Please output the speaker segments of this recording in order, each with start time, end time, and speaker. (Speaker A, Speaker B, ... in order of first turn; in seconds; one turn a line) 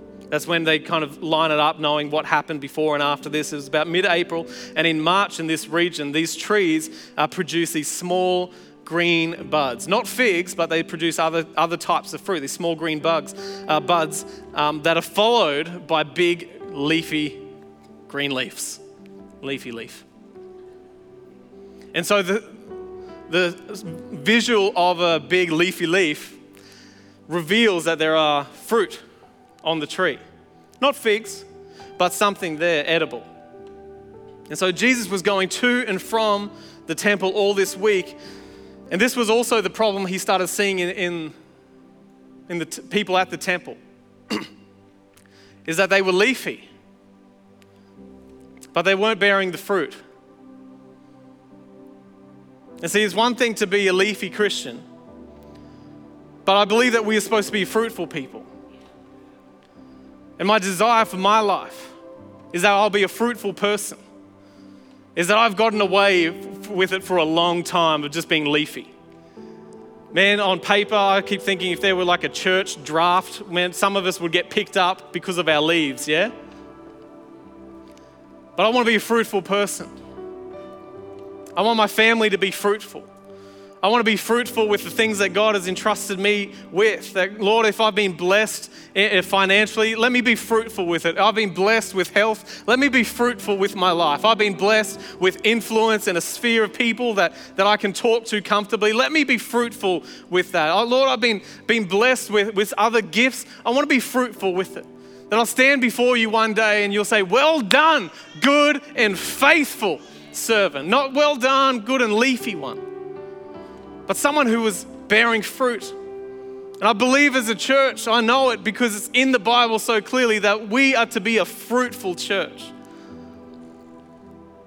Speaker A: 0.3-17.4
Speaker A: 18.1-18.8
Speaker A: 19.4-20.1
Speaker A: 21.9-22.7
Speaker A: 23.3-26.4
Speaker A: 27.3-29.0
Speaker A: 29.6-30.2
Speaker A: 30.8-31.5
Speaker A: 32.0-33.3
Speaker A: 34.5-38.2
Speaker A: 38.9-41.4
Speaker A: 42.5-43.8
Speaker A: 45.7-46.7
Speaker A: 48.7-50.0
Speaker A: 52.8-54.8
Speaker A: 56.5-58.5
Speaker A: 60.4-62.0
Speaker A: 62.5-64.0
Speaker A: 65.2-68.9
Speaker A: 70.1-76.3
Speaker A: 78.6-79.9
Speaker A: 81.6-83.1
Speaker A: 83.8-112.8
Speaker A: 114.1-116.0
Speaker A: 116.8-122.7